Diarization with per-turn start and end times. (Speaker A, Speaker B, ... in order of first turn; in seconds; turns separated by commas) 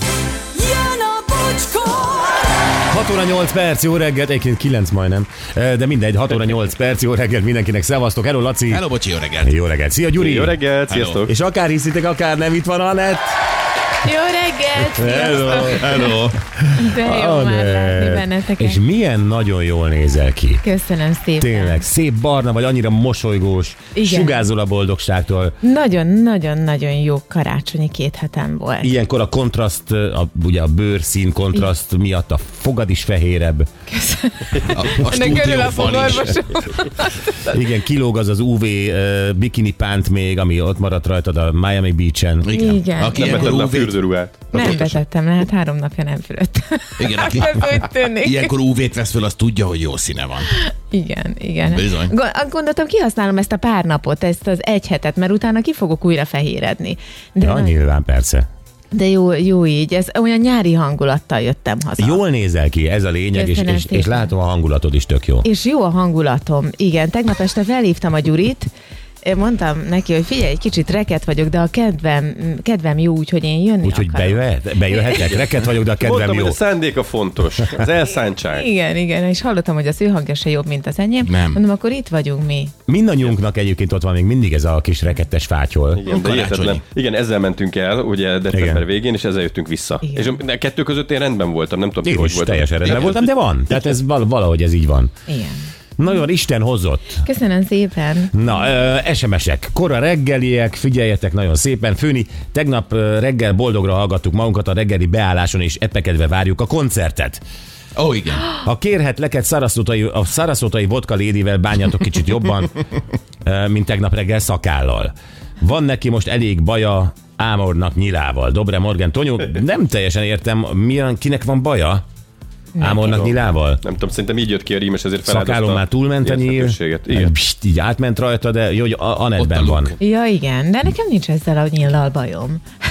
Speaker A: 0.5-2.8, Speaker B: 2.9-8.8, Speaker C: 8.7-9.5, Speaker B: 9.4-10.6, Speaker D: 10.2-11.3, Speaker C: 10.9-11.2, Speaker B: 11.2-13.3, Speaker E: 14.0-16.1, Speaker B: 14.8-20.6, Speaker E: 16.8-18.8, Speaker E: 20.6-21.8, Speaker B: 21.4-25.6, Speaker E: 23.9-24.4, Speaker E: 25.6-28.9, Speaker B: 28.8-33.7, Speaker E: 33.9-37.3, Speaker C: 34.6-36.4, Speaker B: 37.4-42.7, Speaker C: 42.4-45.0, Speaker E: 42.5-43.5, Speaker D: 43.1-44.9, Speaker E: 44.6-48.5, Speaker C: 47.0-50.5, Speaker E: 50.5-57.8, Speaker C: 51.6-52.1, Speaker B: 57.4-58.5, Speaker E: 58.9-62.2, Speaker B: 62.0-65.5, Speaker E: 63.3-64.3, Speaker E: 65.4-68.7, Speaker E: 69.2-75.3, Speaker B: 73.8-76.6, Speaker D: 76.0-78.7, Speaker E: 78.5-82.7, Speaker C: 81.2-81.6, Speaker B: 82.9-86.0, Speaker D: 86.0-93.1, Speaker C: 86.1-86.8, Speaker B: 88.5-88.8, Speaker E: 90.0-90.3, Speaker B: 92.0-95.1, Speaker C: 92.8-93.1, Speaker E: 95.3-95.6, Speaker B: 96.0-97.2, Speaker E: 97.2-98.5, Speaker B: 98.3-107.4, Speaker C: 108.0-108.5, Speaker B: 108.5-112.8, Speaker B: 113.4-122.0, Speaker E: 122.8-123.1, Speaker B: 122.8-123.8, Speaker D: 123.0-127.3, Speaker B: 125.3-129.9, Speaker C: 129.4-130.0, Speaker E: 130.0-132.6